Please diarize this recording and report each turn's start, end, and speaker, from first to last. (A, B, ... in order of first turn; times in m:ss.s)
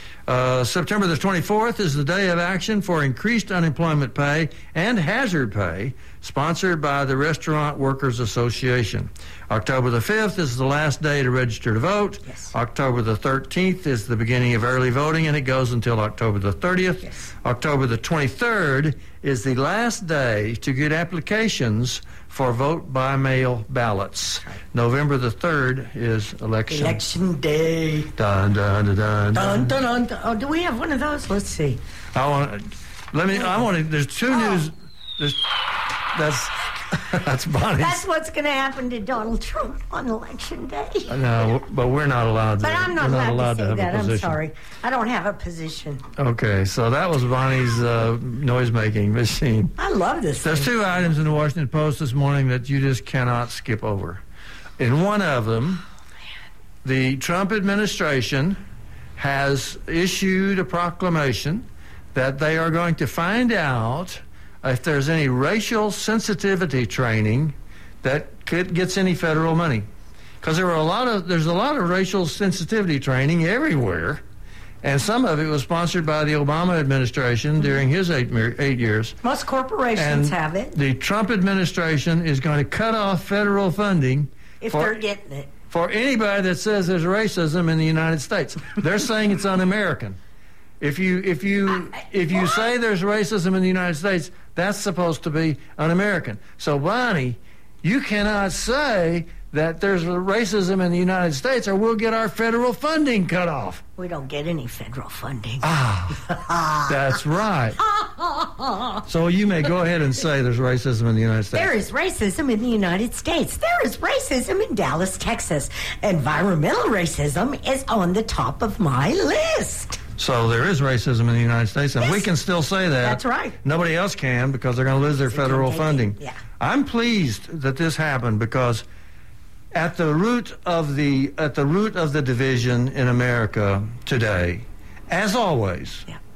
0:00.3-0:27.0 A
0:26.7-0:28.1 B
0:28.2-0:29.8 A
0:29.3-0:31.8 B
0:32.1-0:35.5 A
0:36.1-0:38.0 A
0:37.8-0:41.2 B
0:41.1-0:44.4 A
0:42.6-0:46.1 B
0:46.2-0:49.8 A
0:49.8-0:50.7 B
0:50.4-0:54.2 A
0:54.8-0:55.8 A
0:56.8-0:58.6 A
0:59.2-1:09.9 A
1:10.4-1:14.2 A
1:14.8-1:19.2 A
1:19.2-1:20.8 B
1:20.0-1:25.0 A
1:24.6-1:25.5 B
1:25.7-1:30.2 A
1:30.8-1:43.8 A
1:44.0-1:47.2 B
1:45.6-1:46.3 A
1:46.9-1:47.8 A
1:47.8-1:49.0 B
1:49.1-1:51.7 A
1:51.5-2:00.0 B
2:00.2-2:08.8 A
2:02.0-2:02.3 B
2:03.0-2:03.6 B
2:05.3-2:06.4 B
2:09.7-2:16.1 A